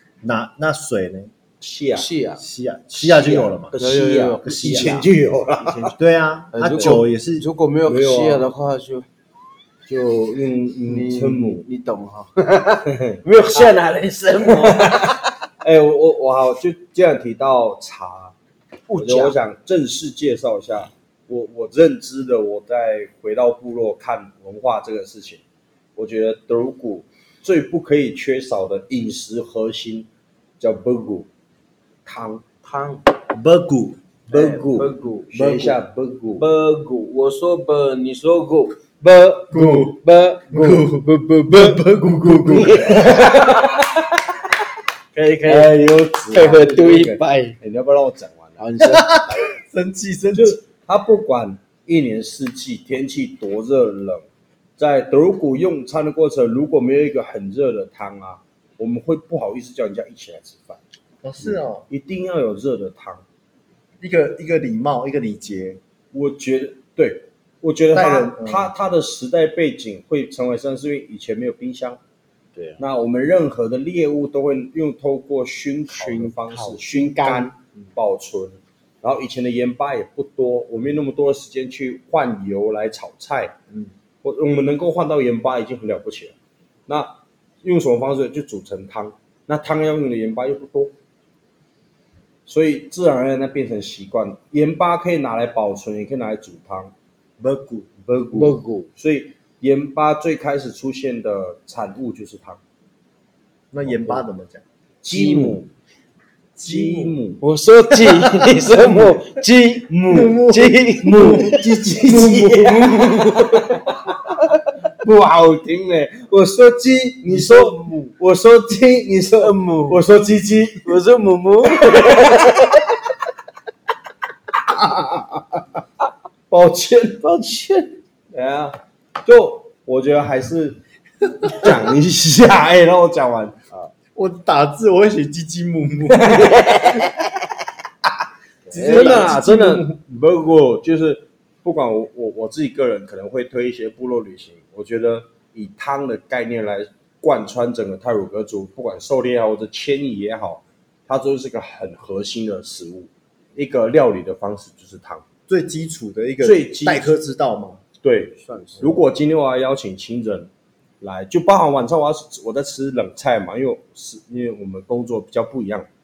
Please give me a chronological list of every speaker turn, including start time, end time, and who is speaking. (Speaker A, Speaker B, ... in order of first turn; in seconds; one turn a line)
Speaker A: 0.2-1.3
Speaker B: 1.6-2.1
Speaker C: 1.9-2.4
Speaker A: 2.4-3.8
Speaker C: 3.0-5.1
Speaker B: 3.0-5.9
Speaker A: 5.8-7.5
Speaker C: 6.5-9.1
Speaker B: 6.7-7.0
Speaker B: 7.8-8.6
Speaker B: 9.9-11.6
Speaker C: 10.8-15.3
Speaker B: 12.9-13.7
Speaker B: 14.5-18.4
Speaker C: 18.9-19.4
Speaker B: 19.0-25.4
Speaker B: 26.0-30.1
Speaker B: 30.6-31.3
Speaker B: 32.0-32.4
Speaker C: 32.6-33.0
Speaker A: 33.3-34.0
Speaker B: 34.3-36.5
Speaker C: 34.3-35.8
Speaker C: 36.4-43.4
Speaker A: 39.5-40.0
Speaker A: 40.5-42.9
Speaker B: 42.5-44.5
Speaker C: 45.1-47.6
Speaker B: 45.5-48.6
Speaker C: 48.6-49.5
Speaker A: 48.8-50.6
Speaker B: 50.4-54.2
Speaker B: 54.8-60.8
Speaker A: 61.2-61.9
Speaker B: 61.4-63.2
Speaker A: 64.0-65.8
Speaker B: 66.1-72.0
Speaker A: 67.9-68.7
Speaker C: 72.5-72.8
Speaker B: 72.8-83.5
Speaker C: 75.9-77.5
Speaker B: 84.2-86.4
Speaker B: 86.9-90.9
Speaker B: 92.5-96.9
Speaker A: 97.4-97.9
Speaker B: 98.0-102.6
Speaker C: 98.3-98.9
Speaker A: 103.7-104.6
Speaker B: 105.0-105.7
Speaker C: 105.1-105.6
Speaker A: 106.5-107.2
Speaker B: 106.6-107.4
Speaker C: 107.4-113.8
Speaker A: 107.9-109.2
Speaker A: 110.0-112.0
Speaker B: 111.0-121.0
Speaker C: 117.2-118.1
Speaker C: 119.4-120.0
Speaker C: 120.8-122.8
Speaker B: 121.7-122.7
Speaker B: 124.6-125.8
Speaker B: 126.5-130.8
Speaker B: 131.4-133.6
Speaker A: 134.2-136.6
Speaker B: 136.1-137.2
Speaker C: 138.7-139.4
Speaker A: 138.7-139.9
Speaker B: 138.7-155.2
Speaker A: 155.5-157.8
Speaker B: 156.4-157.2
Speaker B: 158.0-160.5
Speaker C: 158.4-159.0
Speaker B: 161.0-165.9